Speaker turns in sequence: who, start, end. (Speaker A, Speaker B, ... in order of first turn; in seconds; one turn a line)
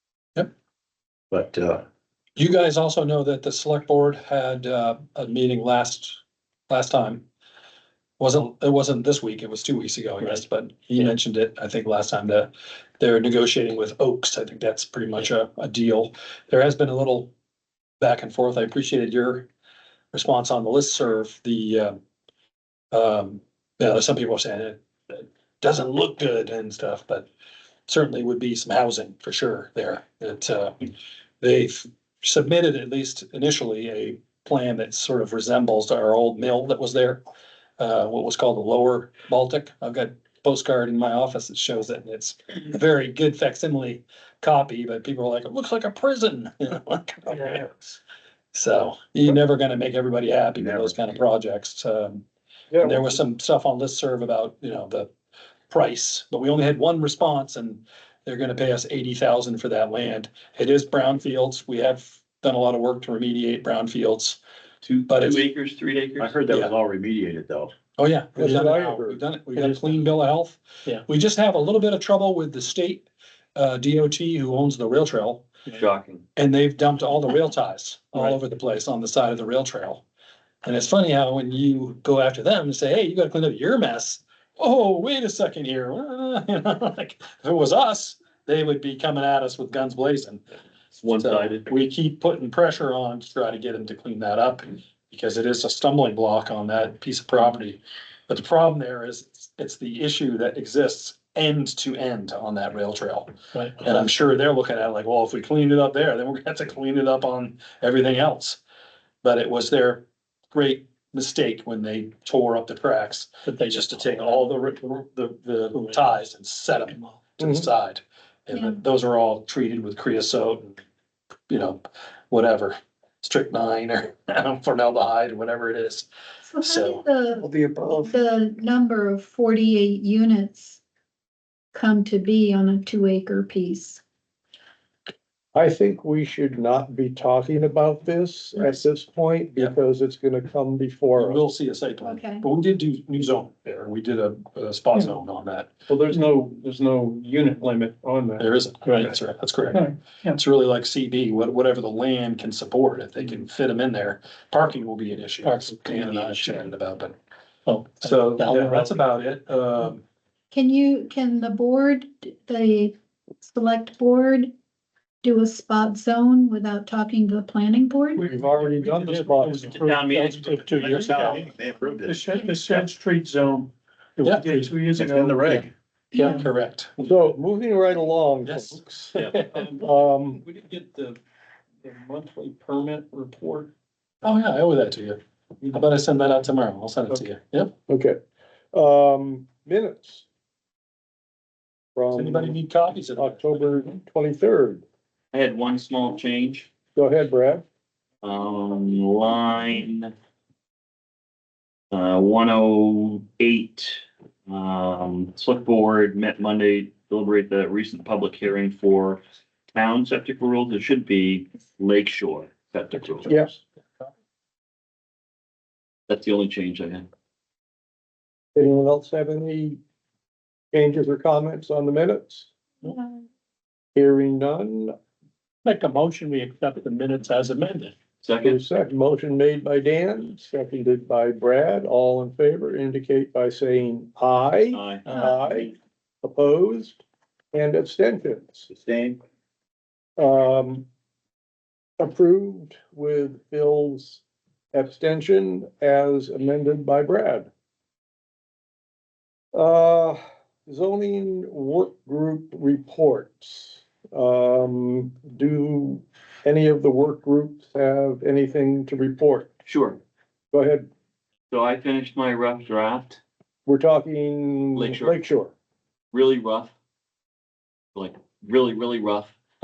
Speaker A: 1.3-1.9
Speaker B: 2.4-7.2
Speaker B: 8.2-17.3
Speaker B: 18.0-19.5
Speaker B: 20.1-22.0
Speaker B: 22.9-27.3
Speaker B: 27.9-30.9
Speaker B: 31.4-37.2
Speaker B: 37.8-48.0
Speaker B: 48.5-52.2
Speaker A: 50.6-51.0
Speaker C: 52.7-53.1
Speaker B: 52.8-55.1
Speaker B: 55.7-64.4
Speaker D: 64.8-66.4
Speaker B: 65.1-65.5
Speaker A: 66.2-67.7
Speaker B: 66.5-66.8
Speaker B: 68.0-75.5
Speaker C: 68.4-69.2
Speaker E: 69.6-70.0
Speaker D: 75.7-76.2
Speaker B: 76.4-80.0
Speaker B: 80.6-90.4
Speaker D: 90.9-91.7
Speaker B: 91.1-108.6
Speaker B: 109.2-120.8
Speaker E: 113.5-114.5
Speaker E: 115.7-116.1
Speaker F: 118.5-118.8
Speaker B: 121.5-126.1
Speaker F: 126.5-130.8
Speaker B: 126.6-127.0
Speaker E: 127.4-128.1
Speaker F: 131.7-134.0
Speaker C: 135.5-141.4
Speaker B: 141.2-145.7
Speaker F: 142.0-142.5
Speaker E: 144.9-145.2
Speaker E: 145.9-149.2
Speaker B: 148.4-157.2
Speaker E: 149.7-150.4
Speaker E: 155.4-156.7
Speaker E: 157.7-159.0
Speaker B: 158.0-160.0
Speaker F: 160.5-164.5
Speaker F: 165.2-168.3
Speaker E: 168.2-171.5
Speaker C: 168.2-169.8
Speaker D: 169.7-171.4
Speaker A: 170.9-172.2
Speaker E: 172.1-176.3
Speaker B: 174.2-174.7
Speaker A: 174.9-175.7
Speaker B: 176.2-177.1
Speaker C: 177.1-179.3
Speaker B: 178.4-179.7
Speaker E: 179.3-181.2
Speaker C: 179.8-180.4
Speaker E: 181.8-183.7
Speaker B: 184.2-187.7
Speaker C: 187.9-188.2
Speaker C: 188.7-190.2
Speaker C: 191.9-192.6
Speaker B: 192.1-193.7
Speaker C: 193.2-194.8
Speaker D: 195.3-196.7
Speaker C: 196.9-197.6
Speaker D: 198.2-200.1
Speaker D: 201.9-213.3
Speaker C: 213.3-213.5
Speaker D: 216.1-217.1
Speaker C: 218.6-219.8
Speaker C: 220.7-222.5
Speaker C: 223.9-224.9
Speaker E: 225.7-227.9
Speaker D: 228.2-228.6
Speaker C: 228.4-237.0
Speaker D: 234.7-235.0
Speaker C: 237.5-238.7
Speaker A: 238.7-239.2
Speaker C: 240.2-240.9
Speaker C: 242.0-244.2
Speaker C: 244.7-247.5
Speaker C: 249.5-259.5
Speaker D: 259.7-260.0
Speaker C: 260.5-260.9
Speaker D: 261.5-263.2
Speaker C: 263.7-265.5
Speaker D: 264.8-265.2
Speaker D: 266.1-266.7
Speaker D: 267.9-269.4